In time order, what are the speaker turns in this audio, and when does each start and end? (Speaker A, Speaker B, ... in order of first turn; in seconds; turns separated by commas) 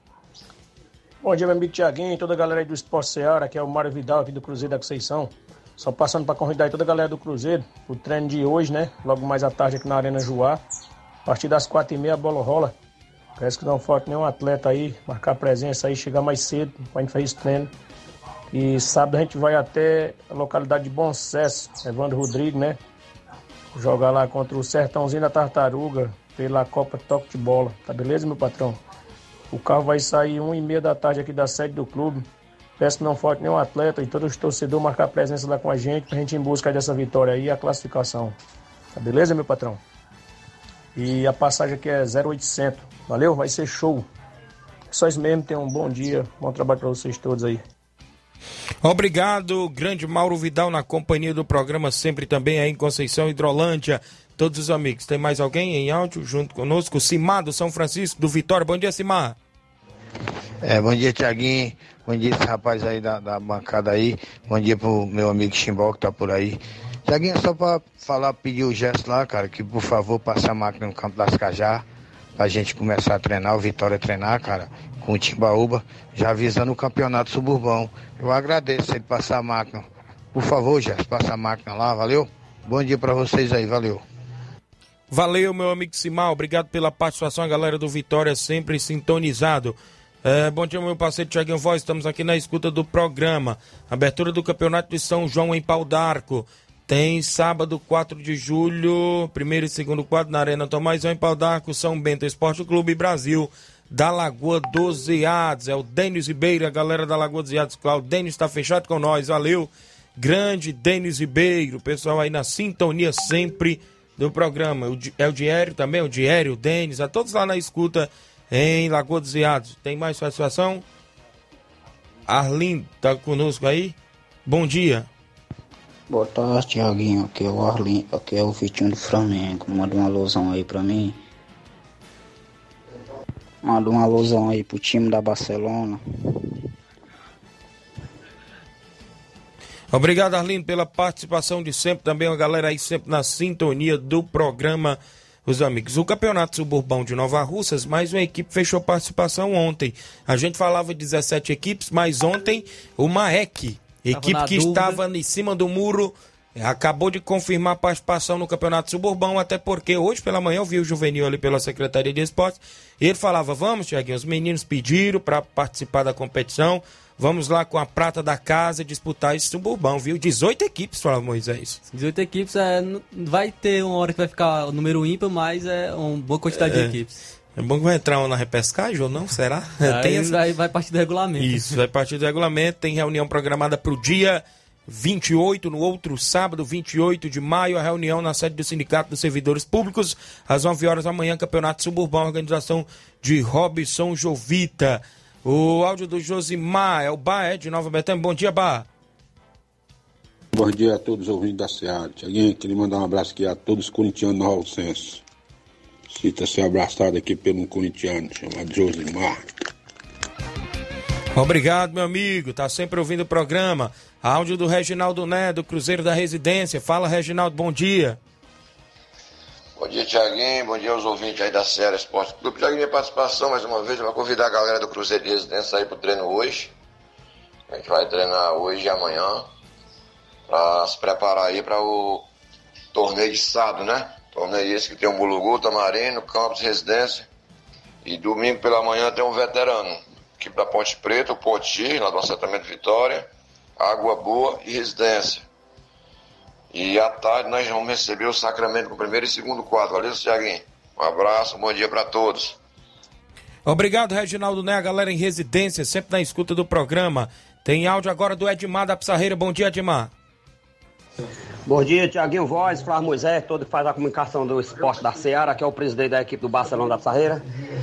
Speaker A: 1.2-10.6, Speaker A: 11.2-12.7, Speaker A: 13.4-17.7, Speaker A: 18.5-22.8, Speaker A: 23.7-28.8, Speaker A: 29.5-32.2, Speaker A: 32.8-38.3, Speaker A: 38.9-39.8, Speaker A: 40.9-44.0, Speaker A: 44.9-47.6, Speaker B: 48.8-59.4, Speaker C: 60.6-71.8, Speaker C: 72.4-79.8, Speaker C: 80.3-84.0, Speaker B: 85.1-120.8, Speaker B: 122.3-123.9, Speaker B: 124.5-125.1, Speaker D: 126.1-131.2, Speaker D: 133.6-136.0, Speaker B: 139.9-171.8, Speaker E: 154.1-155.0, Speaker E: 171.9-177.2, Speaker B: 176.5-176.9, Speaker B: 177.6-180.3, Speaker E: 179.8-181.8, Speaker B: 181.4-198.9, Speaker F: 200.5-205.2, Speaker F: 206.1-209.4, Speaker B: 211.3-218.2, Speaker G: 219.8-226.7, Speaker G: 227.7-229.4, Speaker G: 230.5-232.2, Speaker G: 232.9-237.3, Speaker G: 238.0-243.2, Speaker G: 243.8-245.4, Speaker G: 246.7-252.6, Speaker B: 253.7-260.1, Speaker H: 261.7-267.4